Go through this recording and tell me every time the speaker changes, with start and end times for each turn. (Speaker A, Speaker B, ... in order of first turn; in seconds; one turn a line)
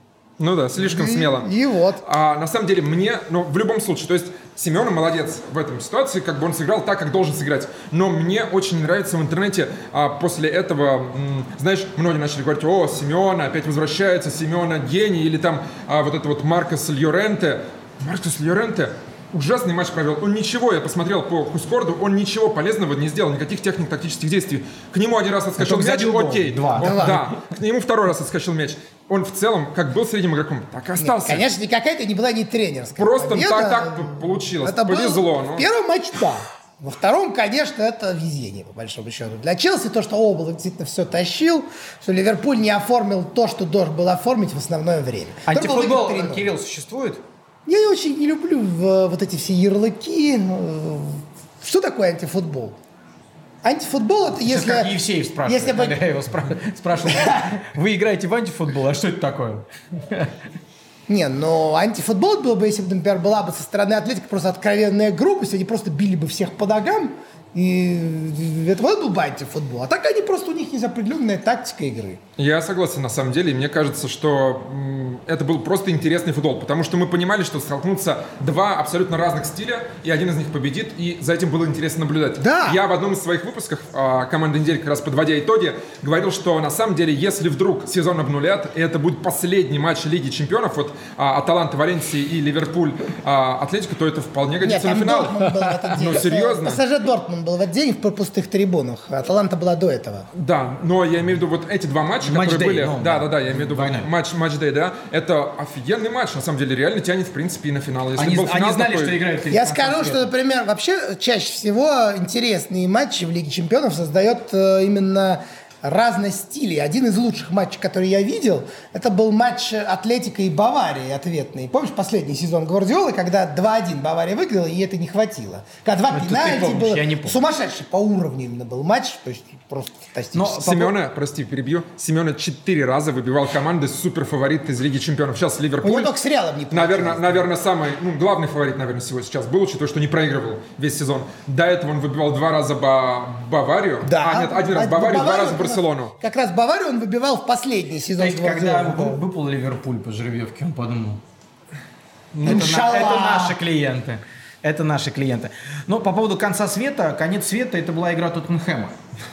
Speaker A: 0.4-31.4
Speaker B: 0.8-2.0
Speaker C: 25.6-27.3
Speaker B: 26.8-27.2
Speaker B: 31.0-46.5
Speaker A: 33.0-35.7
Speaker C: 45.4-47.2
Speaker B: 47.6-52.8
Speaker B: 53.6-56.0
Speaker C: 54.4-60.4
Speaker B: 57.0-57.6
Speaker B: 61.1-72.2
Speaker A: 72.4-96.8
Speaker B: 82.4-82.8
Speaker B: 94.6-100.3
Speaker A: 100.3-109.2
Speaker C: 102.2-104.1
Speaker C: 108.2-110.3
Speaker B: 109.5-130.6
Speaker C: 126.1-127.4
Speaker C: 130.3-130.9
Speaker A: 130.6-136.1
Speaker B: 135.8-137.5
Speaker A: 136.7-146.1
Speaker B: 144.0-149.2
Speaker C: 148.2-151.2
Speaker A: 152.3-152.7
Speaker C: 152.4-159.0
Speaker B: 152.4-153.6